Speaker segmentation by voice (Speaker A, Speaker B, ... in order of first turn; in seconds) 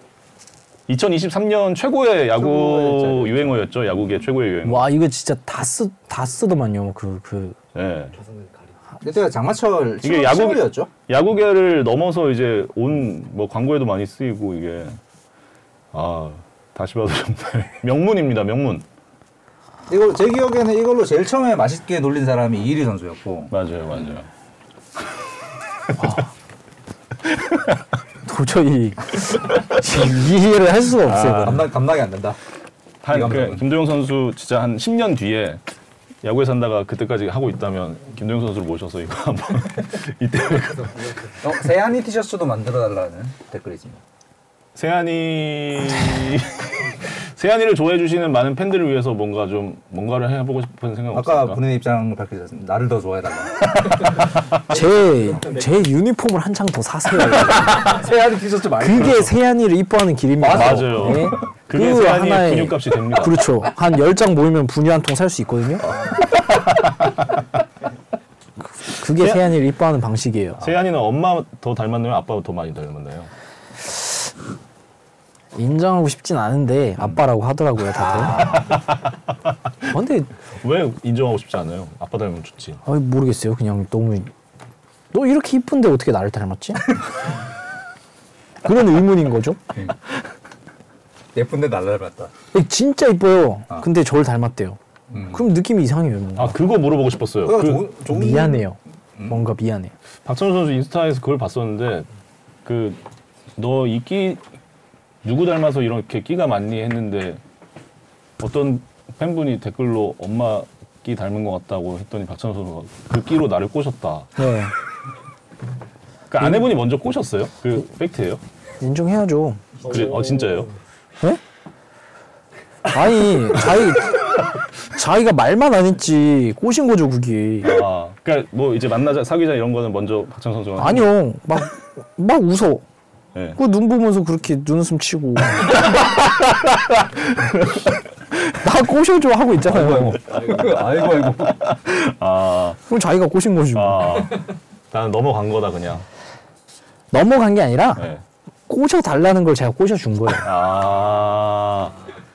Speaker A: 0.9-4.9, 7.8-8.1, 10.0-15.0, 15.9-18.8, 23.5-24.3, 31.0-31.7, 33.0-35.6, 36.2-41.2, 44.8-51.6, 60.4-63.4, 65.9-67.1, 69.2-69.4, 70.6-73.3, 78.4-78.9, 80.6-82.8, 96.3-97.9, 100.3-102.1, 102.7-103.0, 103.6-104.4, 105.2-107.4, 108.4-114.4, 116.3-118.4, 119.8-120.7, 127.6-131.2, 135.9-137.9, 139.9-142.8, 143.8-146.1, 148.0-148.2, 150.4-152.0
Speaker B: 2.3-3.6, 9.0-10.9, 19.9-23.5, 31.3-32.4, 33.1-33.7, 41.4-44.0, 51.1-53.7, 57.8-59.4, 60.4-61.3, 78.0-78.7, 91.3-92.3, 95.1-95.4, 97.4-98.6, 139.7-141.7
Speaker C: 4.6-7.6, 26.0-26.3, 28.2-31.7, 54.7-58.0, 58.8-66.0, 68.8-70.6, 75.5-78.6, 79.9-80.3, 82.8-84.3, 85.1-87.0, 88.6-89.6, 92.5-96.6, 98.0-99.9, 114.4-114.7, 118.8-119.9, 122.9-124.3, 124.8-127.8, 130.8-132.8, 133.6-135.8, 138.6-140.2, 142.9-144.3, 147.1-148.1, 148.7-150.5
Speaker D: 8.1-8.8, 40.8-41.3, 54.7-55.8, 119.9-120.7, 140.5-140.8